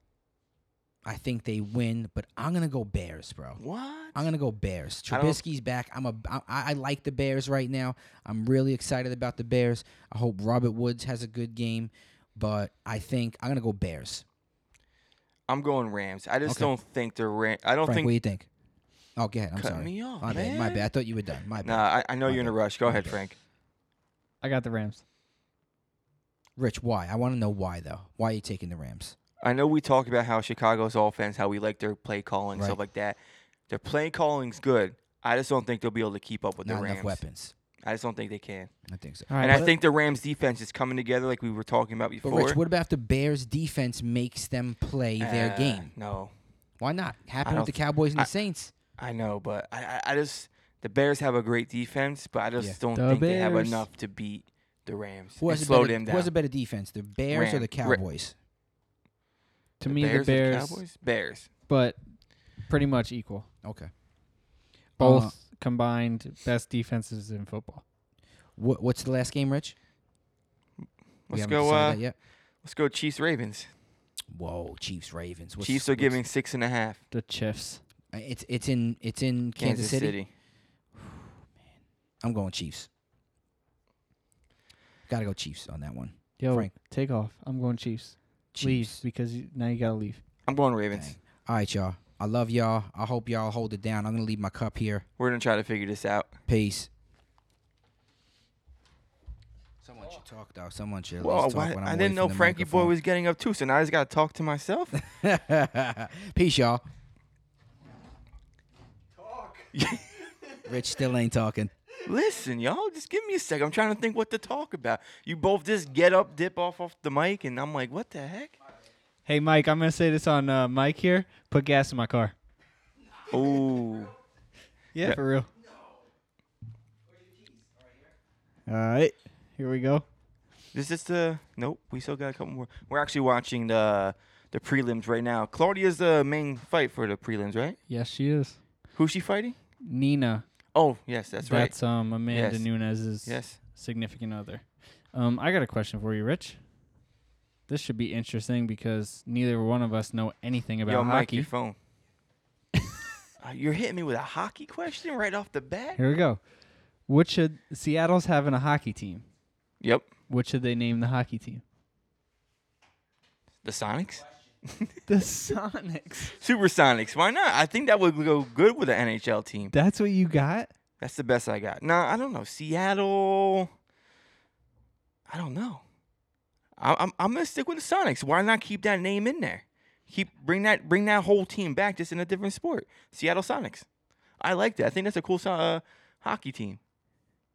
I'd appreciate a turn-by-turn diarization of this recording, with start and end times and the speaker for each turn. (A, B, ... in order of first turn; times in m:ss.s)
0:01.0-0:03.6 A
0:03.6-0:04.3 B
0:04.1-0:14.2 A
0:05.1-0:05.4 B
0:15.5-0:18.1 B
0:16.4-0:16.7 A
0:17.8-0:18.5 A
0:19.2-0:23.2 A
0:19.6-0:20.9 B
0:21.6-0:23.4 B
0:24.4-0:25.0 C
0:26.6-0:29.2 A
0:29.4-0:33.2 B
0:33.7-0:37.2 B
0:36.6-0:37.5 A
0:37.8-0:38.7 B
0:38.9-0:39.7 A
0:39.3-0:39.7 C
0:39.4-0:42.6 B
0:42.2-0:45.9 A
0:45.2-0:46.3 B
0:46.8-0:48.7 A
0:47.4-0:48.3 B
0:49.0-0:56.3 B
0:53.0-0:53.8 C
0:55.4-0:58.3 A
0:57.3-0:58.0 B
0:59.8-1:00.8 C
0:59.9-1:01.5 B
1:01.7-1:02.0 C
1:02.6-1:03.5 C
1:03.6-1:03.9 A
1:05.0-1:05.3 A
1:05.0-1:07.8 C
1:08.6-1:09.8 A
1:11.3-1:12.0 B
1:11.3-1:12.1 A
1:12.6-1:13.7 B
1:14.3-1:16.2 A
1:15.6-1:17.0 B
1:17.1-1:17.8 C
1:18.1-1:20.2 A
1:19.6-1:20.3 B
1:22.2-1:22.9 A
1:25.1-1:26.7 A
1:26.4-1:30.2 C
1:28.5-1:29.0 A
1:30.5-1:31.2 B
1:30.9-1:35.0 A
1:35.2-1:36.3 B
1:36.5-1:36.9 A
1:39.8-1:43.0 A
1:41.2-1:45.0 B
1:45.0-1:46.8 A
1:49.7-1:50.1 B
1:50.6-1:51.7 A
1:52.0-1:58.6 B
1:59.3-2:02.3 C
2:03.3-2:04.1 B
2:04.9-2:05.5 C
2:08.7-2:10.0 C
2:10.7-2:17.8 B
2:17.9-2:18.6 C
2:19.0-2:19.6 B
2:19.8-2:20.4 C
2:20.7-2:21.7 B
2:21.4-2:26.6 C
2:22.3-2:22.7 B
2:23.2-2:23.6 B
2:27.7-2:31.5 C
2:30.9-2:31.8 B
2:33.4-2:36.0 B
2:36.0-2:36.4 C
2:37.1-2:39.3 C
2:39.8-2:40.1 B
2:40.3-2:41.6 C
2:43.6-2:44.9 B
2:45.1-2:46.3 C
2:46.4-2:49.7 B
2:49.7-2:50.7 C
2:51.0-2:53.7 B
2:55.3-2:55.8 B
2:56.8-3:03.9 B
3:04.4-3:06.8 B